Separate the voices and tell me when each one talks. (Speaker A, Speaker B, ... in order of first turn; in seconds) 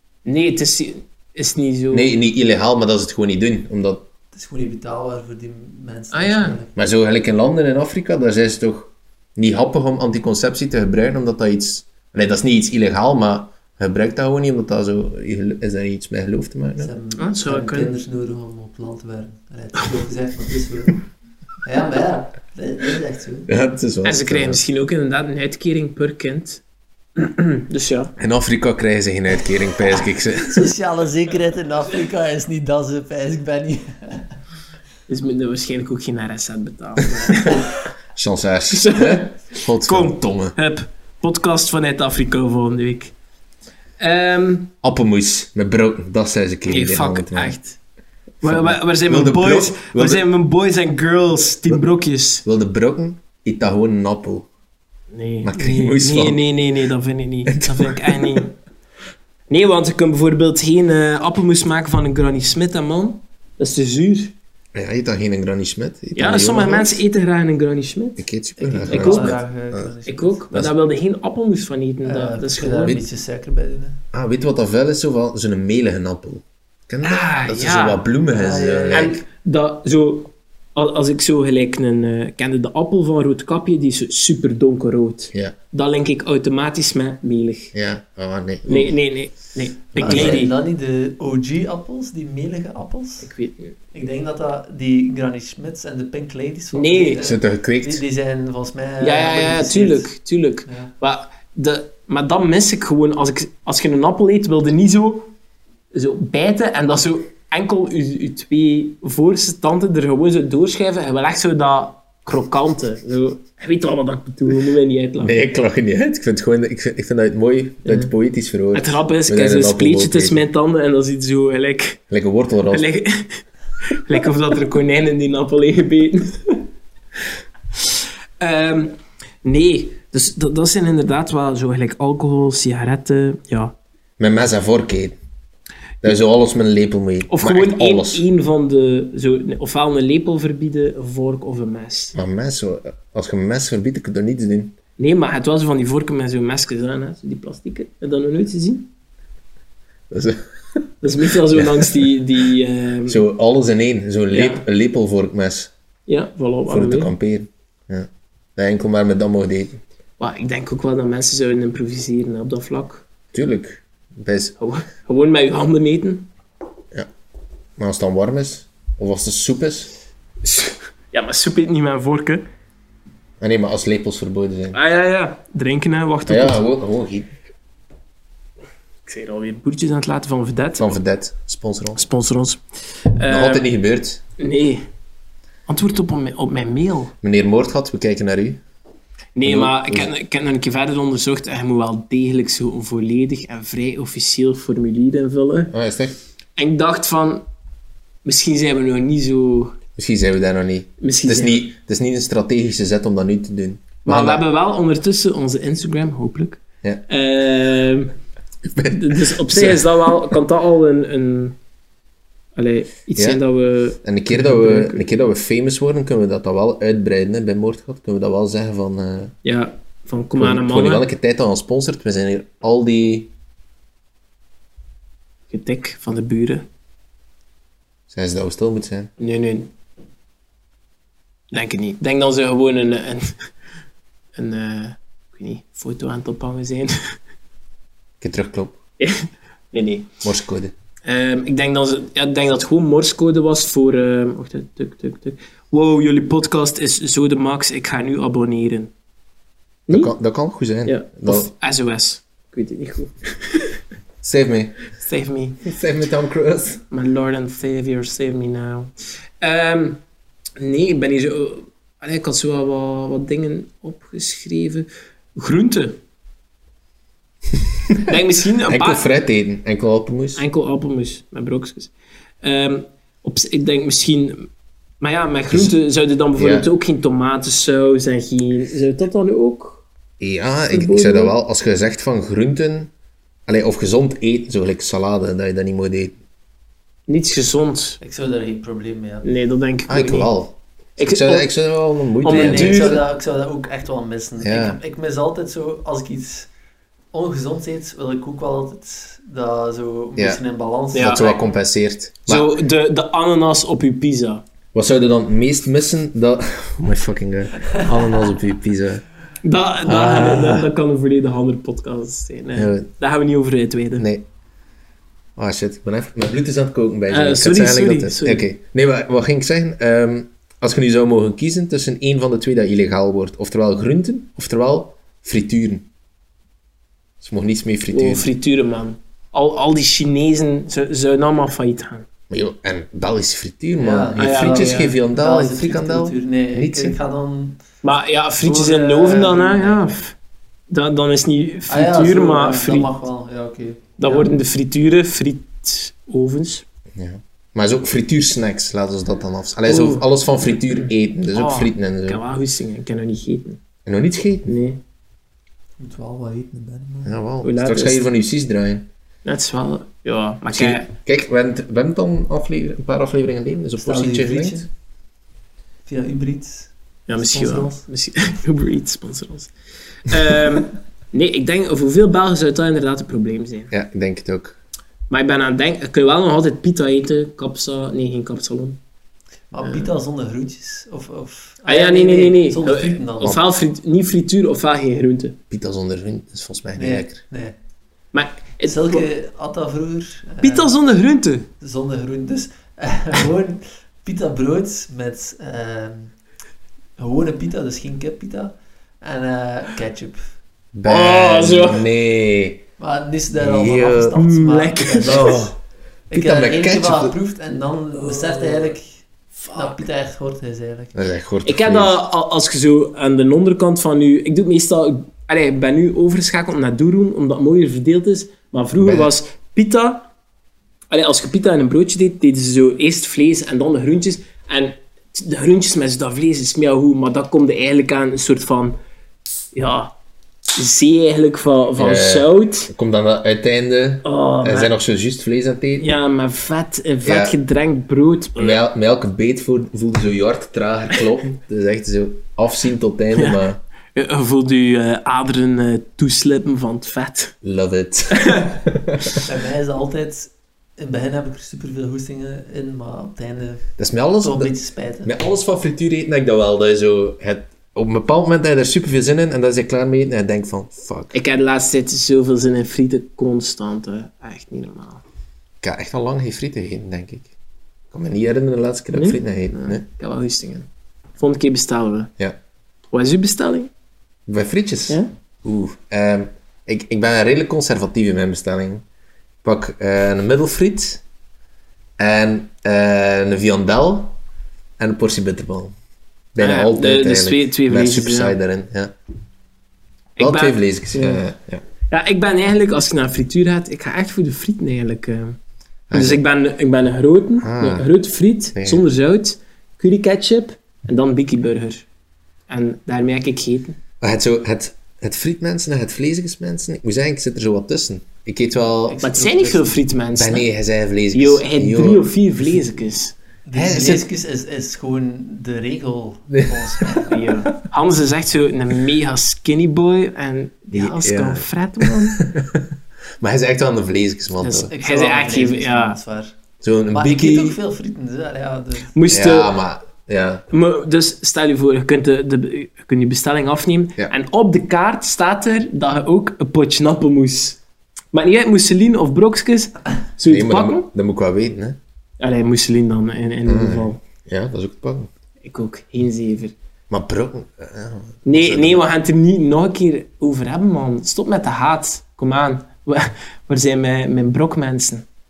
Speaker A: 0.2-2.1, 6.1-6.6, 17.1-17.9, 24.0-26.6, 27.1-28.1, 35.1-37.7, 38.7-43.1, 44.0-44.7, 46.7-47.8, 48.4-52.4, 55.1-58.5, 59.5-64.3, 66.1-68.2, 68.9-69.4, 70.0-73.0, 77.0-78.0, 78.9-87.7, 88.6-90.5, 93.2-93.7, 96.7-97.2, 99.0-105.3, 105.9-115.4, 117.8-118.1, 118.7-122.0, 122.7-126.7, 127.8-133.8, 137.3-142.2, 145.0-148.9, 151.0-153.2, 154.3-154.6, 156.1-157.1, 160.2-163.0, 164.6-166.3, 170.4-172.4, 174.7-176.6, 179.1-180.9, 181.9-182.6, 183.1-183.7, 184.4-184.8, 185.7-187.1, 189.3-195.7, 196.6-197.4, 198.2-199.8, 201.0-201.7, 204.0-208.1, 208.9-211.6, 212.5-215.0, 219.4-221.0, 225.5-226.7, 229.2-229.7, 231.5-233.4, 234.3-237.2, 239.0-240.1, 241.0-248.9, 249.9-250.1, 250.8-253.8, 255.0-255.6, 256.9-260.0, 260.6-266.0, 268.0-269.0, 270.4-274.5, 275.0-279.8, 280.7-281.3, 287.1-288.0, 289.2-290.3, 291.0-291.5, 292.2-293.0, 300.9-301.3, 302.2-304.4, 309.4-314.1, 317.1-318.4, 327.9-332.1, 334.1-334.9, 337.8-340.1, 340.7-342.9, 344.0-346.6, 349.7-350.1, 351.3-353.6, 354.4-354.8, 357.4-358.0, 359.2-360.9, 367.1-369.5, 370.0-373.7, 375.1-378.8, 381.6-385.4, 388.1-389.1, 390.4-391.5, 400.8-401.8, 404.1-405.4, 408.2-408.5, 409.4-409.8, 411.4-420.1, 420.9-428.8, 429.5-429.9, 430.5-432.7, 434.0-434.7, 435.8-438.6, 443.1-443.4, 443.9-447.4, 448.1-448.6, 461.1-465.0, 468.9-472.1, 472.9-473.7, 486.4-488.4, 490.2-491.2, 491.9-495.4, 495.9-501.9, 502.5-503.8, 509.0-510.5, 511.1-513.1, 517.0-522.2, 524.4-526.0, 528.9-529.5, 530.5-537.6, 538.1-540.9, 542.2-544.0, 545.4-546.5, 548.2-555.0
Speaker B: 1.9-4.1, 6.8-16.9, 23.5-24.6, 28.2-30.7, 38.1-40.5, 44.8-47.5, 48.4-50.2, 52.4-54.5, 55.4-56.4, 57.5-58.5, 64.7-67.0, 68.2-69.9, 74.1-79.2, 87.7-88.9, 90.0-90.4, 97.2-98.0, 115.2-120.4, 122.1-122.9, 134.2-135.2, 136.0-138.2, 142.1-144.8, 150.1-150.8, 151.4-152.0, 153.1-155.7, 156.7-159.8, 163.3-164.6, 167.8-169.9, 173.4-174.8, 176.3-177.3, 180.8-182.0, 183.3-184.2, 187.2-188.6, 189.4-190.1, 195.7-196.2, 199.9-204.4, 208.6-210.1, 214.0-219.3, 220.3-223.3, 228.1-229.1, 238.2-238.8, 240.2-240.7, 249.9-251.5, 254.2-254.8, 255.6-256.8, 267.9-268.1, 268.6-270.4, 276.4-276.7, 280.2-282.9, 283.5-286.2, 289.9-293.0, 294.4-294.8, 301.0-302.5, 304.7-309.0, 309.8-310.6, 312.5-312.9, 314.0-314.2, 315.4-325.9, 327.2-328.3, 332.3-337.0, 346.9-352.2, 353.8-354.5, 357.0-358.9, 360.5-364.6, 373.7-374.6, 385.5-387.2, 400.7-402.6, 403.3-404.2, 405.0-405.5, 406.1-407.1, 410.9-412.0, 418.8-419.1, 431.8-435.9, 437.0-437.4, 438.4-443.6, 447.4-449.2, 453.8-454.5, 455.0-461.1, 465.6-467.3, 467.9-469.8, 474.3-478.8, 479.4-481.0, 482.0-484.2, 484.8-485.7, 486.3-488.9, 490.2-491.6, 495.9-496.2, 497.4-497.9, 498.5-498.8, 504.0-509.0, 510.2-512.0, 513.5-514.0, 516.3-517.1, 520.7-524.7, 526.6-527.6, 529.1-530.5, 540.2-541.8, 543.4-545.1, 546.9-548.8
Speaker C: 4.3-6.8, 16.8-21.1, 21.6-23.5, 30.2-34.2, 68.6-70.4, 72.0-74.0, 78.3-79.2, 90.0-93.3, 93.9-100.1, 100.7-100.9, 288.0-289.3, 292.3-296.5, 297.1-301.4, 333.8-337.6, 338.4-339.9, 341.7-344.3, 355.8-357.1, 363.8-364.7, 365.9-367.9, 379.5-383.4, 386.8-387.5, 388.6-390.8, 391.6-396.1, 397.0-400.2, 402.8-405.5, 406.1-408.9, 409.5-411.0, 449.2-455.1, 508.9-509.8, 513.5-517.2, 524.7-526.3, 526.9-529.0